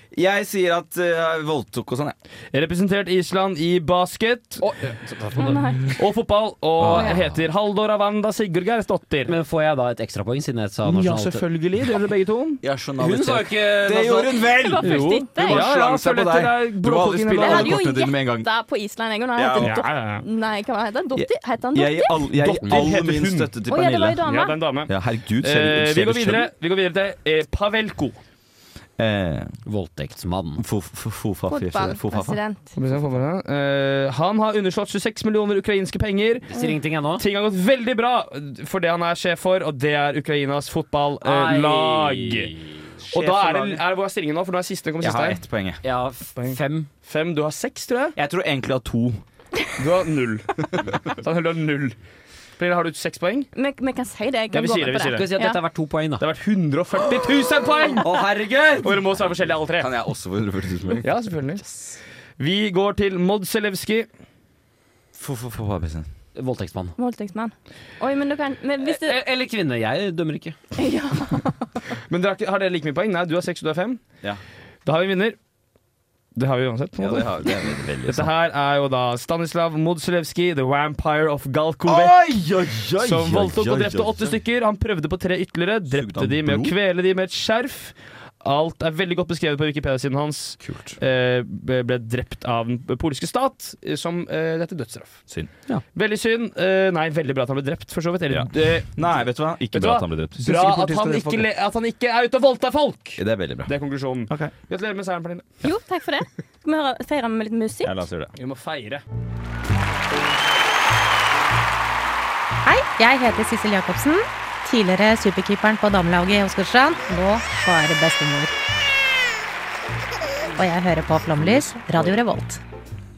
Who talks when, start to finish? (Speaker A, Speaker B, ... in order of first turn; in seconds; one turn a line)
Speaker A: 0.1-2.1
Speaker B: 2.5-4.7
Speaker C: 4.6-5.6
Speaker D: 5.4-5.9
Speaker B: 6.0-9.3
Speaker A: 6.8-7.1
Speaker C: 6.8-7.3
Speaker C: 9.3-11.4
Speaker B: 10.8-12.6
Speaker A: 12.6-18.5
Speaker C: 13.0-14.3
Speaker D: 14.5-15.7
Speaker B: 14.8-17.8
Speaker D: 17.4-22.3
Speaker A: 19.4-19.8
Speaker B: 19.6-20.2
Speaker A: 21.1-24.2
Speaker B: 22.4-23.5
Speaker D: 23.7-24.6
Speaker B: 24.2-28.2
Speaker A: 24.9-26.5
Speaker A: 29.0-29.5
Speaker C: 29.6-30.6
Speaker A: 30.6-32.4
Speaker D: 31.5-32.7
Speaker B: 32.7-36.5
Speaker C: 36.5-37.2
Speaker B: 37.1-42.5
Speaker C: 41.2-43.8
Speaker B: 43.1-45.4
Speaker A: 45.0-45.8
Speaker C: 45.8-46.9
Speaker B: 46.4-48.1
Speaker A: 48.1-49.2
Speaker B: 49.8-52.0
Speaker B: 52.6-53.5
Speaker D: 53.5-55.6
Speaker B: 54.5-55.3
Speaker C: 55.1-56.2
Speaker B: 56.2-58.1
Speaker C: 58.0-59.0
Speaker B: 58.8-59.9
Speaker A: 59.3-61.1
Speaker B: 61.0-64.1
Speaker A: 65.1-66.1
Speaker C: 66.3-66.9
Speaker D: 67.0-69.2
Speaker C: 68.8-70.5
Speaker D: 70.8-71.7
Speaker B: 72.1-74.0
Speaker B: 74.8-75.4
Speaker B: 76.3-77.4
Speaker A: 77.0-78.3
Speaker B: 78.0-82.3
Speaker A: 81.9-84.3
Speaker B: 83.0-95.2
Speaker A: 85.9-86.7
Speaker A: 90.7-91.0
Speaker B: 95.9-99.0
Speaker A: 98.3-101.5
Speaker B: 99.7-105.5
Speaker A: 103.2-103.7
Speaker A: 104.3-104.5
Speaker D: 105.6-108.0
Speaker A: 107.8-108.3
Speaker B: 108.3-109.0
Speaker E: 112.6-118.5
Speaker E: 120.5-122.6